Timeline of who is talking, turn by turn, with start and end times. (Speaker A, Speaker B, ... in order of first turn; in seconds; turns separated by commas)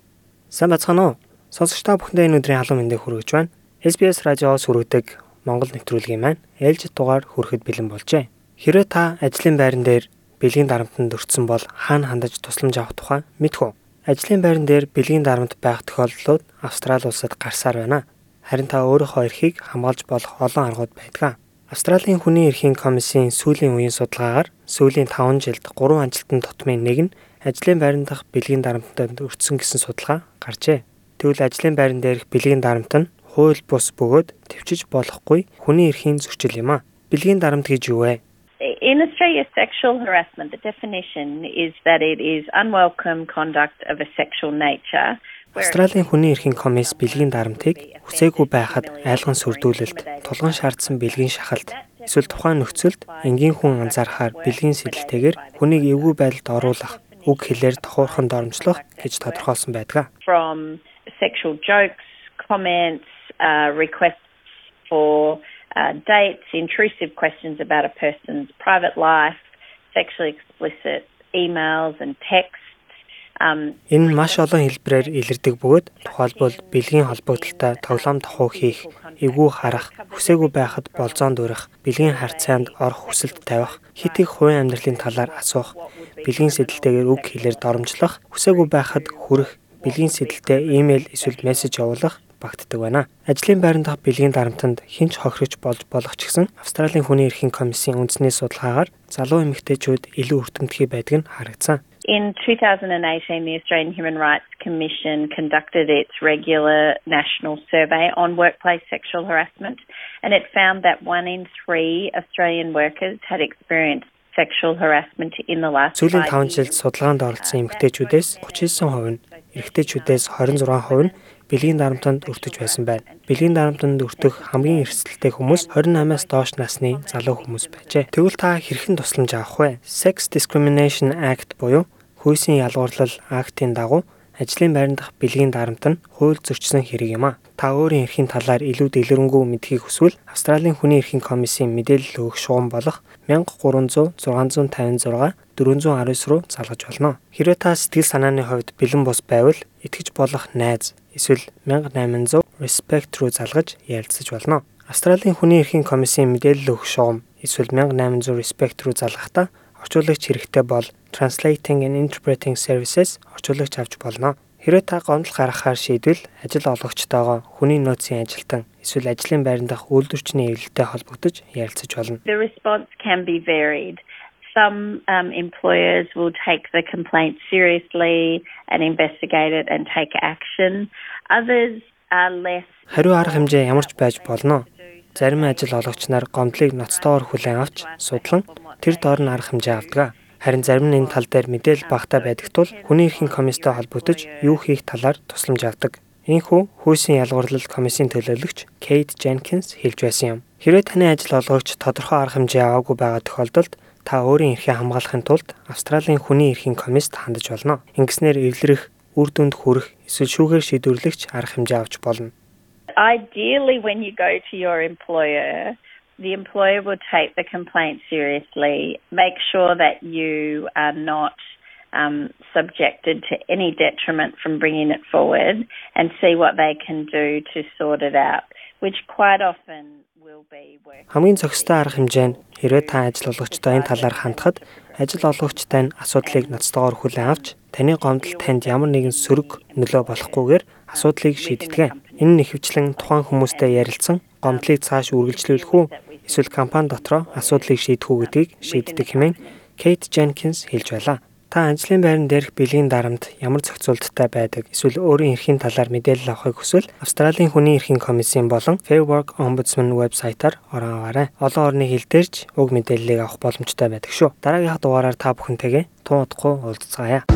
Speaker A: 0.5-38.2, Speaker B: 38.6-59.5, Speaker A: 45.5-60.1, Speaker B: 60.2-64.3, Speaker B: 64.9-72.8, Speaker B: 73.4-75.2, Speaker A: 73.9-101.8, Speaker B: 76.0-92.0, Speaker B: 102.1-116.8, Speaker A: 116.0-172.2, Speaker B: 117.4-128.2, Speaker B: 172.3-174.0, Speaker B: 174.5-194.7, Speaker A: 182.9-212.3, Speaker B: 213.0-221.4, Speaker B: 221.9-242.4, Speaker A: 231.1-267.2, Speaker B: 243.0-249.6